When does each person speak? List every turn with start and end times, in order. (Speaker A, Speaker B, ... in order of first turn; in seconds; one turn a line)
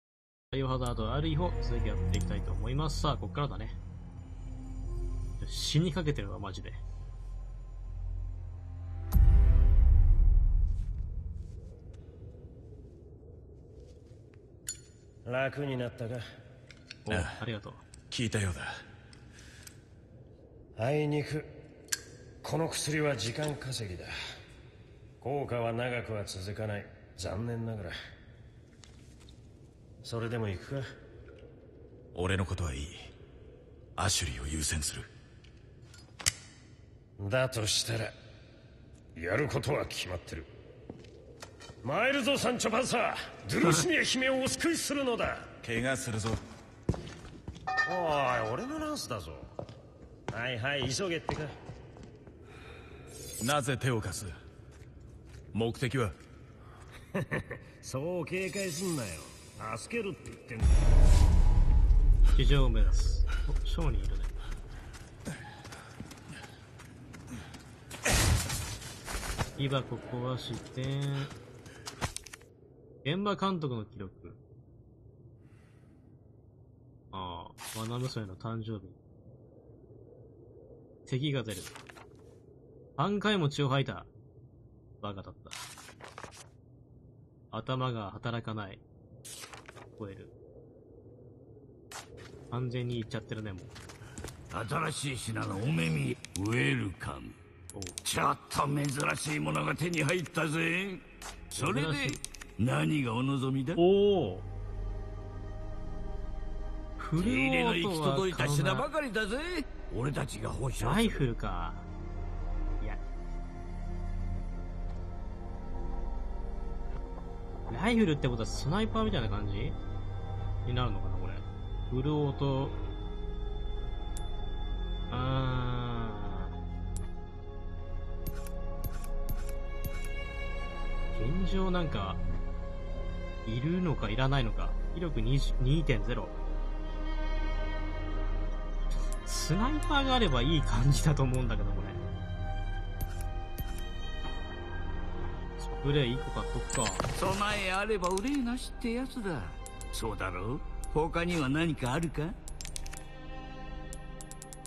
Speaker A: 0.5-3.8
Speaker A: 5.4-6.8
Speaker B: 15.2-16.2
Speaker A: 17.1-17.8
Speaker C: 17.1-17.4
Speaker C: 18.1-18.7
Speaker B: 20.8-21.5
Speaker B: 22.4-24.1
Speaker B: 25.2-27.9
Speaker B: 30.0-30.9
Speaker C: 32.1-33.1
Speaker C: 34.0-35.1
Speaker B: 37.2-38.1
Speaker B: 39.1-40.5
Speaker B: 41.8-45.5
Speaker C: 45.6-46.4
Speaker B: 47.9-49.5
Speaker B: 50.3-51.5
Speaker C: 53.4-54.4
Speaker C: 55.5-56.2
Speaker B: 57.1-60.9
Speaker A: 62.3-64.3
Speaker A: 69.6-71.3
Speaker A: 73.0-74.4
Speaker A: 77.1-79.0
Speaker A: 81.0-81.7
Speaker A: 83.0-84.1
Speaker A: 85.0-85.7
Speaker A: 87.5-88.8
Speaker A: 90.0-90.3
Speaker A: 92.5-93.7
Speaker D: 94.5-97.3
Speaker D: 98.0-103.8
Speaker A: 101.5-102.2
Speaker A: 103.8-104.4
Speaker A: 107.0-108.9
Speaker D: 107.2-111.2
Speaker A: 110.8-111.8
Speaker A: 117.7-119.8
Speaker A: 120.6-122.8
Speaker A: 125.1-126.5
Speaker A: 131.1-132.2
Speaker A: 133.4-136.3
Speaker A: 139.2-142.0
Speaker A: 145.6-147.0
Speaker D: 147.1-152.3